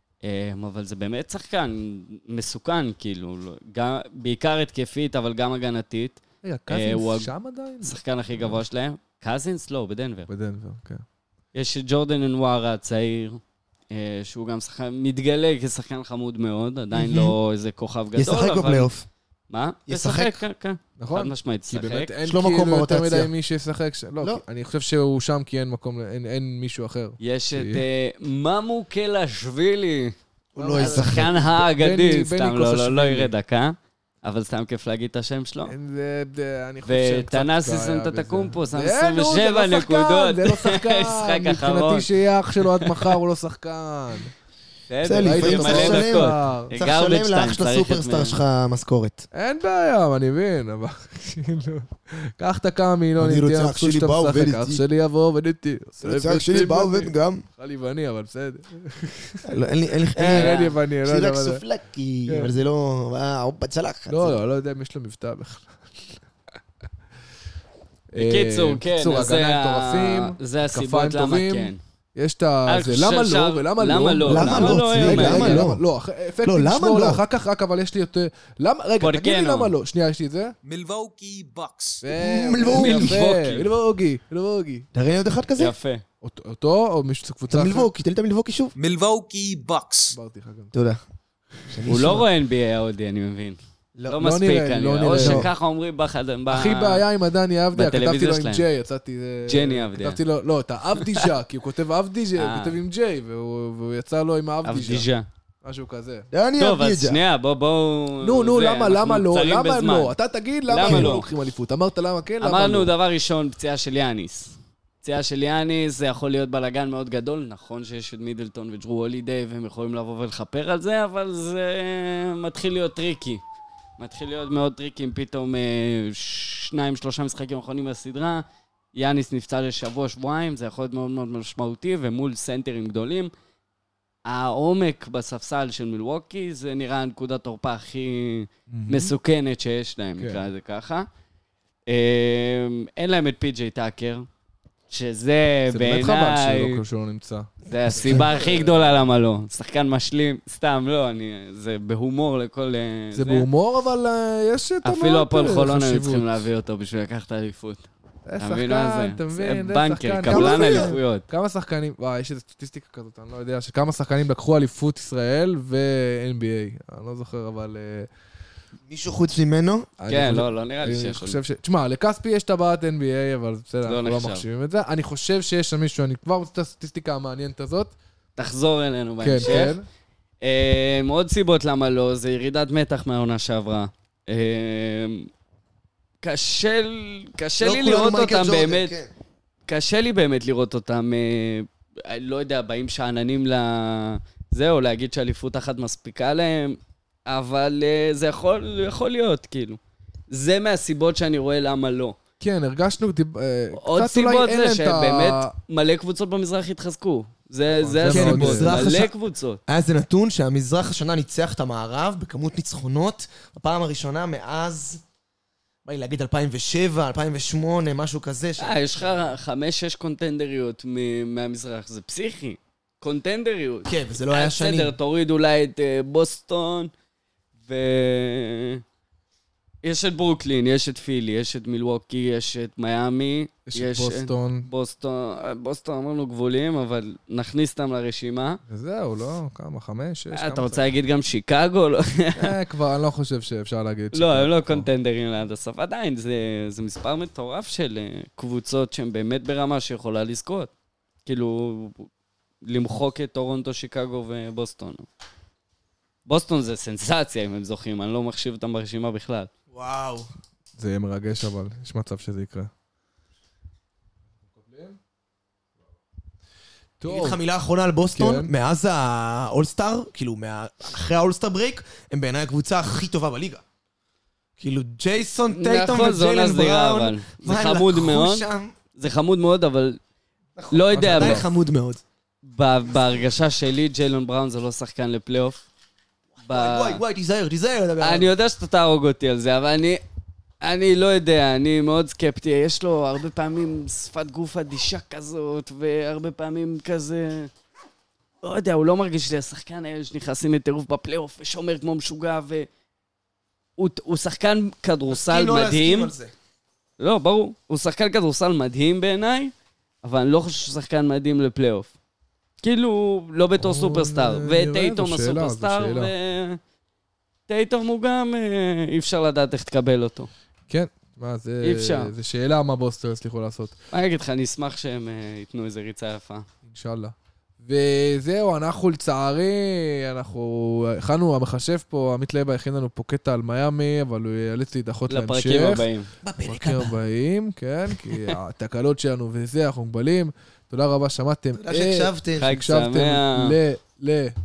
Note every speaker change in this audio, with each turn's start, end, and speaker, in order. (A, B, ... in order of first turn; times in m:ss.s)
0:00.2-0:07.3 A
0:06.4-0:08.5 B
0:07.8-0:10.3 A
0:10.3-0:11.0 B
0:11.5-0:13.4 A
0:13.9-0:18.9 A
0:16.9-0:17.3 C
0:18.2-0:19.1 C
0:19.5-0:22.1 A
0:19.9-0:20.4 C
0:21.0-0:27.8 B
0:22.2-0:23.3 C
0:27.2-0:30.1 A
0:30.5-0:31.3 C
0:30.6-0:33.3 B
0:30.8-0:35.7 A
0:35.6-0:44.3 B
0:36.8-0:42.1 A
0:42.7-0:43.1 A
0:44.9-0:48.4 A
0:45.0-0:49.3 C
0:45.2-0:46.7 B
0:49.3-0:59.6 B
0:53.2-0:54.8 C
0:56.0-0:57.4 C
0:59.4-1:04.4 C
1:00.1-1:01.6 B
1:00.2-1:00.7 A
1:04.1-1:06.2 B
1:08.1-1:20.5 B
1:08.2-1:11.8 A
1:12.7-1:15.6 A
1:14.2-1:15.8 C
1:16.4-1:17.2 C
1:19.0-1:19.7 A
1:20.6-1:22.0 D
1:22.0-1:24.9 B
1:22.1-1:23.2 C
1:22.6-1:23.7 A
1:24.9-1:25.7 C
1:25.6-1:26.0 A
1:26.2-1:27.9 B
1:27.5-1:28.7 C
1:28.8-1:30.2 D
1:30.1-1:30.7 B
1:30.7-1:31.0 C
1:31.7-1:32.2 C
1:31.8-1:37.0 A
1:34.2-1:35.5 B
1:35.1-1:35.5 C
1:36.5-1:45.1 B
1:37.7-1:38.6 A
1:39.5-1:40.2 A
1:41.0-1:41.2 A
1:42.4-1:42.8 A
1:44.6-1:45.2 A
1:45.6-1:46.3 B
1:46.3-1:47.2 C
1:46.6-1:50.1 A
1:48.2-1:52.9 B
1:50.7-1:51.3 A
1:50.9-1:51.1 C
1:52.4-2:03.4 A
2:04.0-2:13.3 A
2:14.2-2:21.1 A
2:18.7-2:19.1 B
2:20.2-2:20.4 B
2:21.9-2:24.2 A
2:24.9-2:26.8 A
2:25.7-2:28.7 B
2:27.6-2:33.5 A
2:33.1-2:36.4 B
2:34.8-2:37.9 A
2:38.2-2:48.1 B
2:38.4-2:41.2 A
2:40.3-2:40.9 C
2:48.9-2:49.9 C
2:50.0-2:57.9 B
2:50.1-2:51.4 A
2:53.8-2:54.4 A
2:58.4-2:59.8 A
2:59.2-2:59.8 B
3:00.4-3:05.3 A
3:06.2-3:08.9 A
3:07.6-3:09.1 C
3:09.7-3:19.8 A
3:20.3-3:22.2 A
3:22.4-3:25.5 B
3:23.7-3:29.6 A
3:27.8-3:28.8 B
3:28.0-3:29.1 C
3:29.6-3:35.0 C
3:35.8-3:39.2 C
3:38.6-3:46.9 A
3:43.8-3:44.9 C
3:47.6-3:48.8 A
3:49.8-3:58.6 A
3:53.7-3:54.7 B
3:58.7-4:00.8 B
4:00.3-4:02.5 A
4:02.4-4:04.9 B
4:04.1-4:10.7 A
4:11.2-4:12.1 A
4:12.6-4:15.0 A
4:16.2-4:19.5 A
4:19.7-4:20.3 C
4:20.8-4:22.7 B
4:24.5-4:25.0 B
4:27.0-4:27.4 B
4:27.1-4:33.6 C
4:28.1-4:28.5 B
4:34.6-4:38.7 C
4:35.5-4:40.0 A
4:40.6-4:42.0 C
4:40.7-4:41.4 A
4:40.9-4:41.4 B
4:42.4-4:45.6 A
4:46.4-4:48.3 C
4:46.4-4:47.0 A
4:48.0-4:50.0 A
4:50.6-4:57.5 A
4:58.4-5:02.7 A
5:03.8-5:06.1 A
5:05.1-5:06.3 C
5:07.0-5:11.9 A
5:12.6-5:16.6 A
5:13.6-5:16.1 B
5:17.5-5:20.3 A
5:20.7-5:23.7 B
5:21.6-5:22.1 A
5:23.9-5:26.4 A
5:26.6-5:35.9 B
5:35.1-5:36.1 A
5:36.2-5:37.0 C
5:36.4-5:44.3 B
5:41.6-5:42.5 C
5:42.4-5:43.6 A